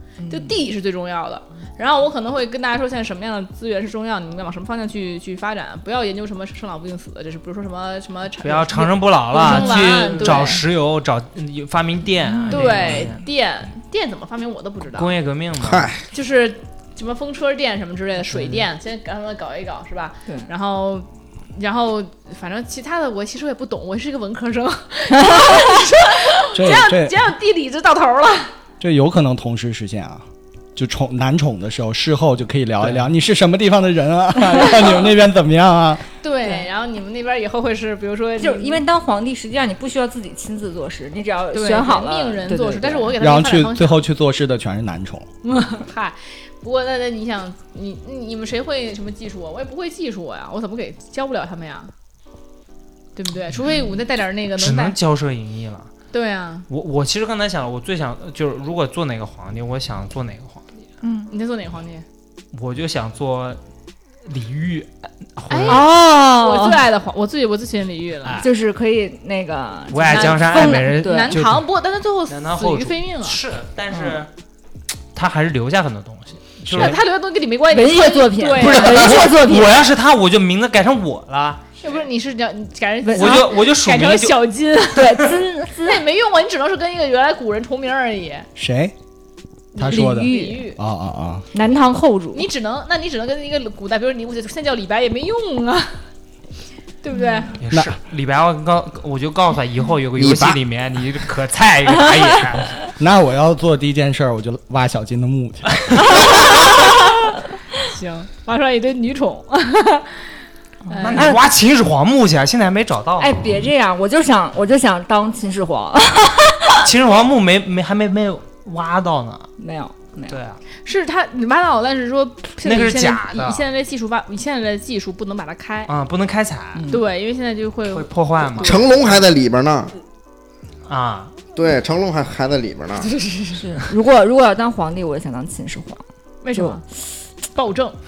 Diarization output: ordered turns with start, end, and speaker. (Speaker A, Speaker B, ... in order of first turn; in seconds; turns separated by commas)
Speaker A: 0.2-0.6, Speaker B: 0.3-10.6, Speaker C: 8.4-13.2, Speaker A: 9.4-10.5, Speaker A: 12.3-13.1, Speaker B: 12.5-15.1, Speaker C: 14.9-15.9, Speaker D: 15.6-16.0, Speaker B: 16.1-28.5, Speaker C: 18.3-18.6, Speaker A: 25.1-25.8, Speaker E: 26.5-27.2, Speaker E: 28.8-30.2, Speaker E: 30.8-36.0, Speaker B: 36.2-38.8, Speaker A: 38.4-43.1, Speaker B: 41.5-44.0, Speaker E: 43.2-45.3, Speaker B: 45.4-51.9, Speaker B: 53.1-55.0, Speaker C: 54.6-55.9, Speaker B: 56.1-56.7, Speaker C: 56.7-60.8, Speaker A: 61.0-61.3, Speaker B: 61.3-62.0, Speaker C: 62.5-63.6, Speaker C: 64.2-65.8, Speaker B: 65.5-68.4, Speaker A: 65.7-66.8, Speaker A: 68.4-71.3, Speaker C: 69.9-71.7, Speaker B: 70.1-73.4, Speaker C: 72.3-74.3, Speaker A: 73.9-74.2, Speaker C: 75.1-77.0, Speaker B: 76.7-79.3, Speaker A: 77.7-79.8, Speaker C: 78.6-81.6, Speaker B: 81.8-88.5, Speaker A: 83.0-83.5, Speaker C: 83.1-84.4, Speaker A: 84.9-86.0, Speaker E: 88.5-88.9, Speaker B: 89.7-90.8, Speaker E: 89.8-91.5, Speaker A: 89.8-90.6, Speaker A: 91.5-92.5, Speaker B: 92.3-96.0, Speaker B: 97.0-97.5, Speaker C: 97.6-102.8, Speaker E: 97.7-98.0, Speaker D: 100.2-100.6, Speaker E: 103.0-106.3, Speaker A: 106.2-106.5, Speaker B: 107.8-110.3, Speaker B: 110.9-111.4, Speaker A: 110.9-111.4, Speaker C: 111.0-113.3, Speaker A: 113.2-116.9, Speaker C: 116.8-119.5, Speaker A: 119.6-120.4, Speaker C: 120.3-120.6, Speaker B: 120.8-125.9, Speaker C: 122.6-123.6, Speaker C: 125.9-126.9, Speaker A: 126.7-127.0, Speaker B: 126.9-128.9, Speaker C: 127.9-129.2, Speaker D: 128.6-129.9, Speaker C: 130.8-131.3, Speaker D: 131.5-133.1, Speaker B: 133.0-133.8, Speaker A: 133.5-136.0, Speaker B: 136.4-136.8, Speaker A: 136.5-136.8, Speaker B: 137.5-138.0